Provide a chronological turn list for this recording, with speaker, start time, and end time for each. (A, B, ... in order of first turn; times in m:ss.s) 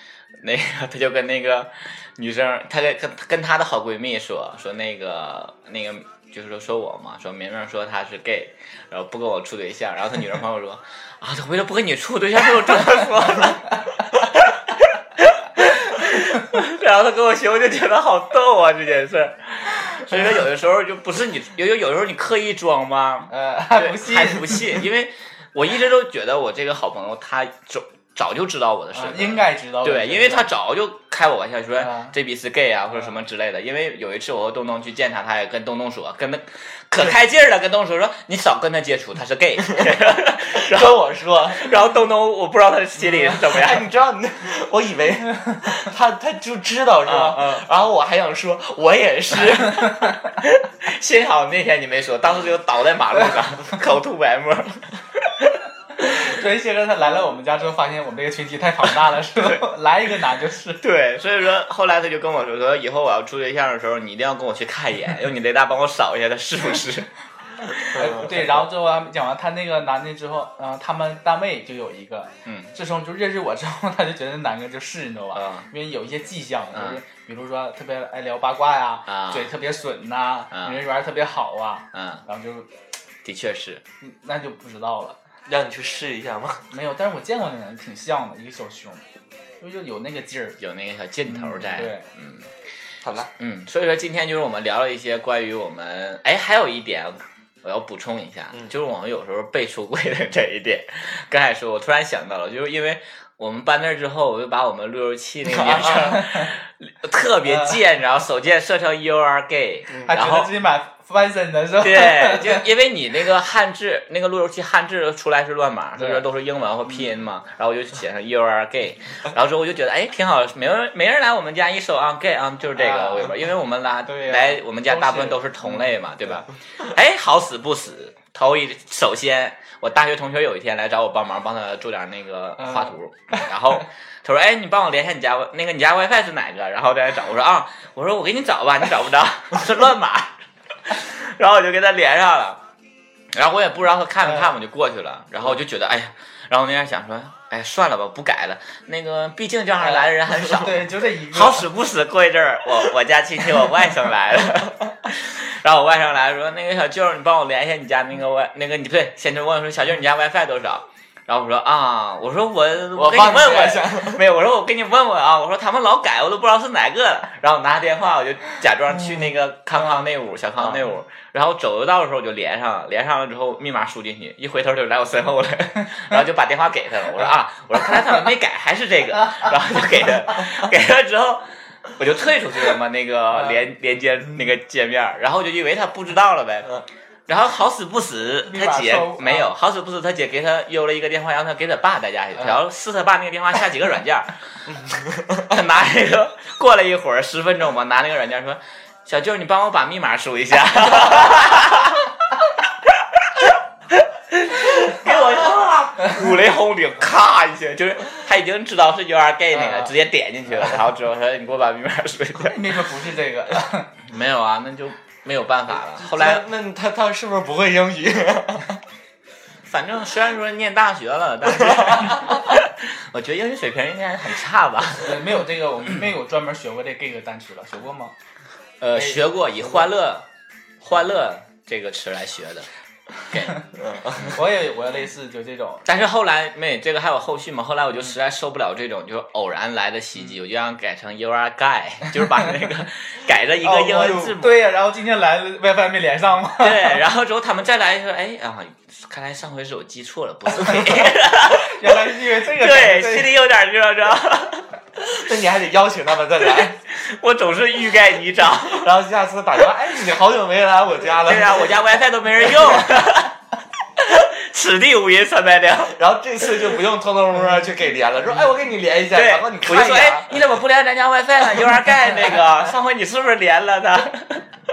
0:00.4-0:43.9 A
0:23.3-0:24.8 B
0:28.9-0:30.5 B
0:31.8-0:32.1 B
0:32.9-0:33.2 B
0:40.5-0:41.7 C
0:43.3-0:50.0 C
0:47.0-0:47.6 A
0:50.2-0:56.3 A
0:56.0-1:00.8 B
0:58.8-0:59.6 A
1:00.8-1:07.1 A
1:07.9-1:22.7 B
1:08.0-1:08.4 C
1:12.4-1:12.7 A
1:15.4-1:15.7 A
1:16.7-1:17.0 A
1:19.1-1:19.5 A
1:20.5-1:20.8 A
1:21.9-1:22.2 A
1:23.2-1:23.8 A
1:24.0-1:25.2 B
1:25.5-1:26.7 C
1:26.7-1:29.0 B
1:29.6-1:30.6 B
1:30.6-1:32.5 A
1:31.3-1:32.1 B
1:33.0-1:33.3 C
1:33.4-1:50.5 A
1:45.4-1:46.2 C
1:46.1-1:46.5 B
1:47.4-1:47.8 B
1:50.0-1:52.6 B
1:51.8-2:20.3 A
1:56.0-1:56.2 B
2:02.7-2:03.4 B
2:04.0-2:06.0 B
2:12.6-2:13.5 B
2:20.9-2:22.6 A
2:23.3-3:06.8 A
2:24.2-2:24.5 B
2:29.8-2:31.7 B
2:43.0-2:44.2 C
2:50.6-2:50.8 C
3:07.3-3:14.4 A
3:08.4-3:09.5 B
3:14.7-3:15.5 C
3:15.4-3:32.9 A
3:29.5-3:29.9 B
3:32.4-3:34.0 B
3:34.0-3:36.4 A
3:36.0-3:38.8 C
3:39.7-3:45.3 A
3:41.5-3:42.4 C
3:45.0-3:48.1 B
3:48.8-3:50.3 A
3:49.0-3:49.2 B
3:50.8-3:52.7 A
3:53.3-3:54.3 A
3:53.3-3:53.7 B
3:53.7-3:54.4 C
3:54.3-3:55.9 B
3:55.9-4:04.6 A
4:02.2-4:02.5 B
4:03.6-4:07.0 B
4:06.6-4:14.7 A
4:10.6-4:13.3 B
4:15.0-4:16.8 C
4:16.6-4:18.9 A
4:18.7-4:21.9 C
4:21.2-4:23.4 A
4:22.4-4:22.9 C
4:24.0-4:26.0 A
4:25.8-4:30.5 C
4:29.1-4:34.4 A